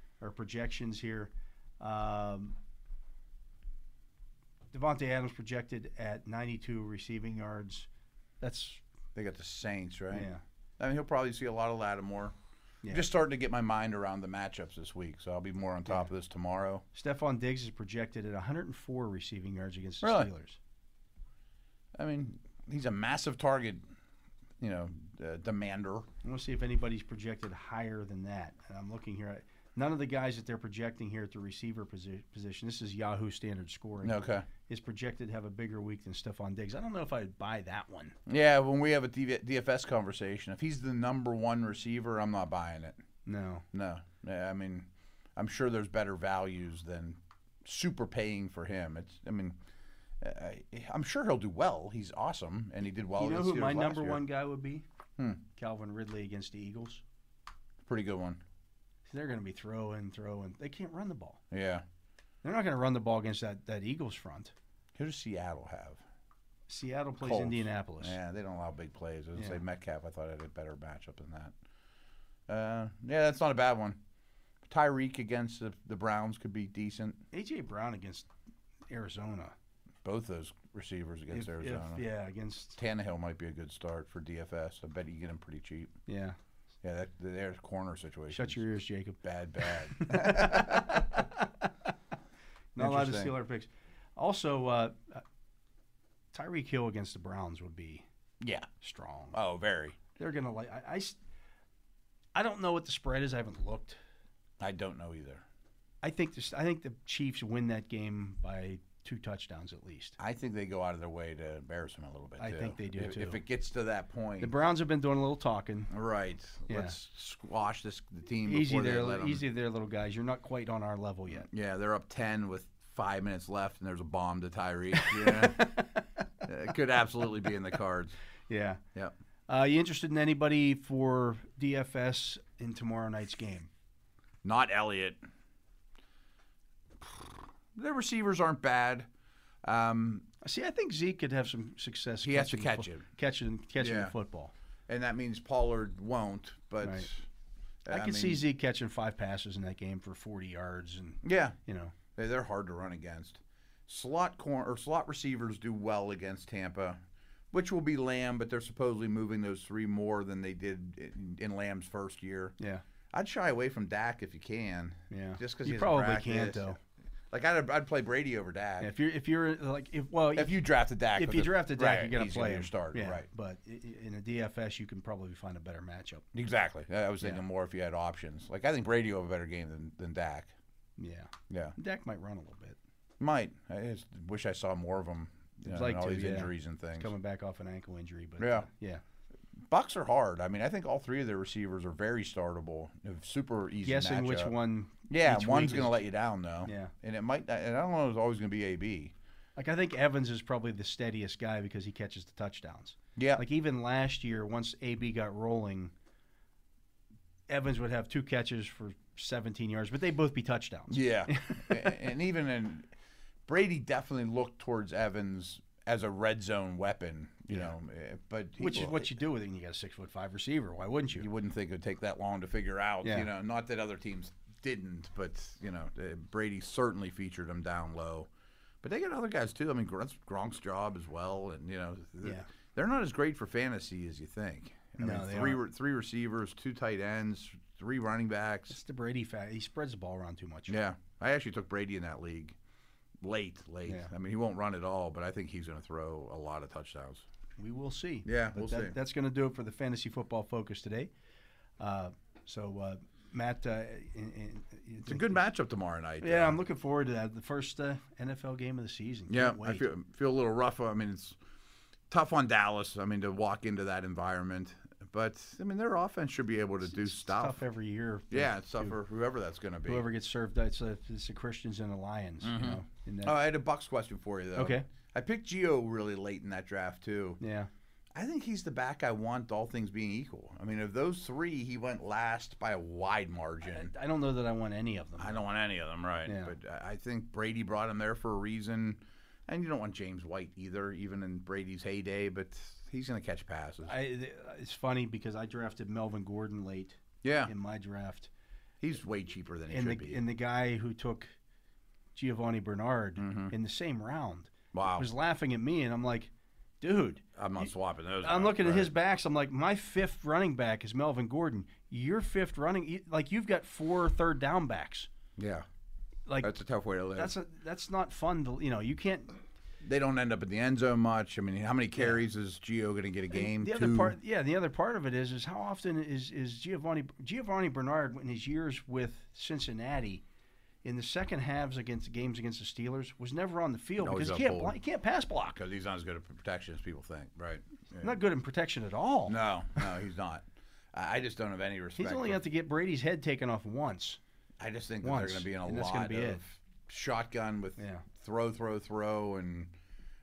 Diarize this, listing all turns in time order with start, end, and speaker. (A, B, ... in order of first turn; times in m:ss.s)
0:00.2-0:02.6 A
0:04.7-0:07.9 A
0:08.4-0:08.8 A
0:09.1-0:12.3 B
0:10.1-0:10.4 A
0:12.9-0:16.8 B
0:16.9-0:20.6 A
0:20.0-0:20.3 B
0:22.0-0:23.8 B
0:24.6-0:26.1 B
0:26.2-0:38.2 A
0:34.0-0:34.5 B
0:38.3-0:43.0 B
0:43.2-0:43.6 A
0:43.7-0:49.5 B
0:50.2-0:54.2 B
0:53.2-0:54.8 A
0:55.6-0:57.0 A
0:57.8-0:58.4 B
0:59.1-1:01.4 A
1:01.5-1:01.8 B
1:02.4-1:04.5 A
1:05.0-1:06.0 B
1:06.7-1:08.2 A
1:07.2-1:11.5 B
1:12.5-1:14.0 B
1:14.6-1:17.2 B
1:17.3-1:18.3 A
1:18.9-1:19.5 A
1:20.0-1:22.0 B
1:21.3-1:22.8 A
1:22.8-1:26.0 B
1:26.1-1:26.4 A
1:26.8-1:28.6 B
1:28.3-1:31.7 A
1:29.2-1:31.2 B
1:32.7-1:35.2 A
1:32.8-1:33.3 B
1:36.3-1:38.0 A
1:38.4-1:38.7 B
1:38.8-1:39.4 A
1:39.3-1:40.0 B
1:40.1-1:41.2 A
1:42.3-1:44.0 A
1:44.6-1:45.4 B
1:46.0-1:50.2 A
1:50.2-1:54.5 B
1:52.4-1:53.4 A
1:54.4-1:55.9 A
1:55.9-1:59.4 B
1:56.7-1:57.0 A
1:58.4-2:01.5 A
2:01.3-2:05.8 B
2:04.9-2:06.2 A
2:06.4-2:08.1 B
2:08.5-2:08.8 A
2:09.5-2:13.7 A
2:14.4-2:15.2 B
2:17.0-2:19.1 B
2:19.6-2:20.2 B
2:20.4-2:24.5 A
2:22.2-2:23.0 B
2:23.8-2:24.1 B
2:24.9-2:27.3 B
2:26.8-2:27.1 A
2:27.8-2:28.4 B
2:27.9-2:31.9 A
2:31.2-2:31.6 B
2:32.1-2:37.0 B
2:37.5-2:42.5 B
2:42.6-2:42.8 A
2:43.1-2:46.7 B
2:45.1-2:46.8 A
2:47.3-2:48.9 B
2:48.8-2:50.6 A
2:50.3-2:53.2 B
2:51.1-2:56.2 A
2:56.3-3:00.5 B
3:01.0-3:02.8 A
3:01.5-3:01.7 B
3:03.2-3:07.1 B
3:05.6-3:09.0 A
3:08.4-3:08.7 B
3:09.7-3:14.5 B
3:13.8-3:16.0 A
3:15.1-3:19.1 B
3:16.6-3:16.9 A
3:19.6-3:25.9 A
3:23.2-3:23.4 B
3:27.5-3:32.0 A
3:30.9-3:32.9 B
3:33.4-3:39.1 B
3:38.6-3:41.3 A
3:41.2-3:48.3 B
3:43.0-3:43.3 A
3:48.8-3:58.7 B
3:52.2-3:52.5 A
3:55.0-3:55.6 A
3:58.7-4:00.8 A
4:00.7-4:02.6 B
4:03.2-4:07.2 B
4:03.8-4:04.1 A
4:07.6-4:11.1 A
4:08.2-4:09.0 B
4:11.8-4:15.4 A
4:15.0-4:16.6 B
4:16.2-4:19.8 A
4:19.3-4:21.4 B
4:22.1-4:27.6 B
4:26.8-4:29.0 A
4:28.3-4:30.0 B
4:29.8-4:33.4 A
4:32.4-4:37.4 B
4:34.6-4:34.9 A
4:37.4-4:37.7 A
4:38.1-4:43.9 B
4:43.6-4:45.4 A
4:45.2-4:53.9 B
4:46.2-4:46.5 A
4:53.8-4:58.3 A
4:57.2-4:57.5 B
4:58.8-5:00.2 B
4:59.7-5:01.3 A
5:02.1-5:07.7 A
5:03.2-5:03.5 B
5:04.7-5:05.1 B
5:07.4-5:08.9 B
5:08.2-5:15.1 A
5:15.4-5:15.6 B
5:16.3-5:16.5 A
5:16.4-5:17.3 B
5:17.1-5:19.4 A
5:19.8-5:24.2 B
5:22.0-5:22.2 A
5:23.3-5:30.2 A
5:30.8-5:35.6 A
5:34.0-5:34.8 B
5:35.6-5:38.2 B
5:38.0-5:39.4 A
5:39.3-5:42.4 B
5:42.0-5:44.2 A
5:44.6-5:49.7 B
5:45.0-5:46.4 A
5:47.8-5:48.0 A